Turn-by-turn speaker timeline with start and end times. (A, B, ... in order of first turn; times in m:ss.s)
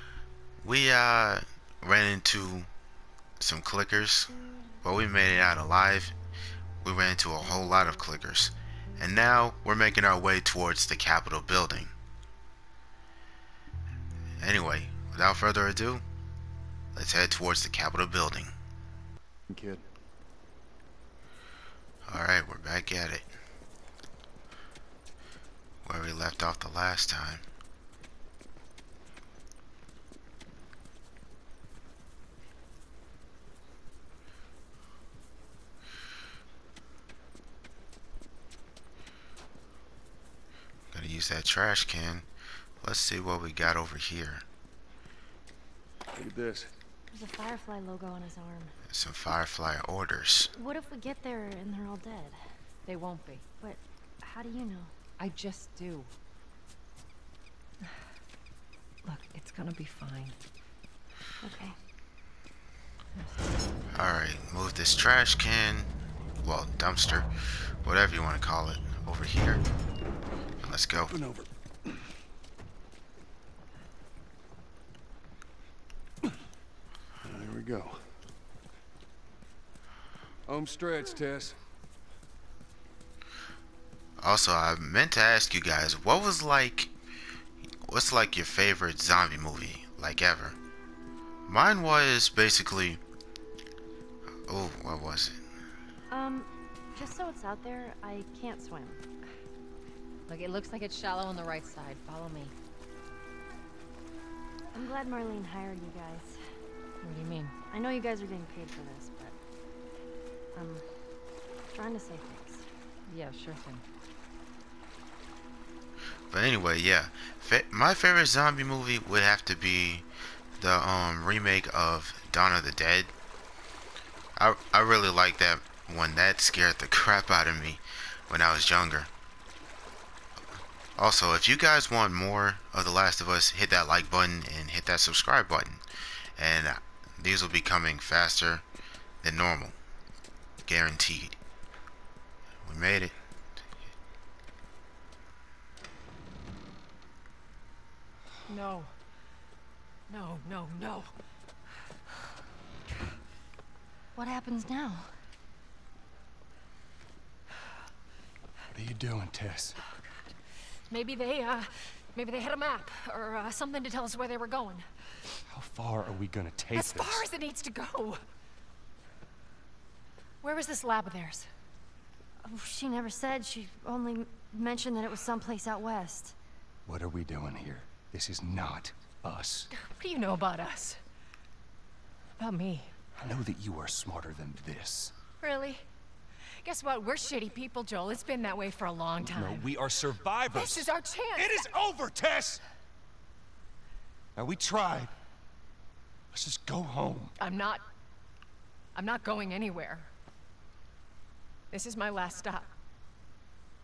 0:00.6-0:02.7 A
0:03.4-0:04.3 A
0:04.8-0:06.1 A
0:06.8-0:11.9 A
0:14.4-0:16.0 A
0:16.9-0:18.5 A
0:19.5-0:19.8 B
0:22.0-0:23.3 A
0:25.8-0:27.4 A
0:40.9-0:42.2 A
0:42.8-0:44.4 A
0:46.1-0:46.7 B
0:47.1-0:48.7 C
0:48.9-0:50.5 A
0:50.5-0:52.4 C
0:52.8-0:53.4 D
0:53.6-0:54.9 C
0:55.2-0:56.1 D
0:59.0-1:00.4 D
1:01.4-1:01.8 C
1:03.9-1:05.9 A
1:06.4-1:07.3 A
1:07.8-1:09.6 A
1:10.6-1:11.2 A
1:11.1-1:12.0 B
1:17.2-1:18.2 B
1:20.5-1:21.6 B
1:24.2-1:26.9 A
1:27.8-1:30.6 A
1:31.5-1:33.0 A
1:34.5-1:35.4 A
1:36.1-1:39.0 C
1:40.3-1:42.5 D
1:44.7-1:46.4 C
1:47.0-1:47.6 D
1:47.7-1:49.3 C
1:50.5-1:50.8 C
1:51.7-1:52.7 C
1:53.0-1:53.8 D
1:56.3-2:00.0 A
2:00.6-2:03.1 A
2:04.4-2:09.1 A
2:11.0-2:15.8 A
2:16.4-2:18.6 A
2:19.2-2:19.8 A
2:20.6-2:21.4 A
2:22.6-2:23.1 A
2:28.4-2:28.9 D
2:30.1-2:31.1 D
2:34.1-2:35.1 C
2:38.7-2:39.8 B
2:40.9-2:44.9 D
2:45.5-2:47.3 B
2:46.7-2:48.2 D
2:50.4-2:51.5 D
2:52.4-2:56.3 C
2:56.8-2:59.7 B
2:59.7-3:01.0 D
3:02.4-3:02.9 D
3:03.2-3:05.2 B
3:05.4-3:05.8 D
3:06.6-3:09.7 D
3:09.3-3:12.6 B
3:10.5-3:11.7 D
3:14.4-3:15.1 B
3:16.3-3:17.3 B
3:17.4-3:17.9 D
3:18.9-3:20.1 D
3:21.7-3:22.7 D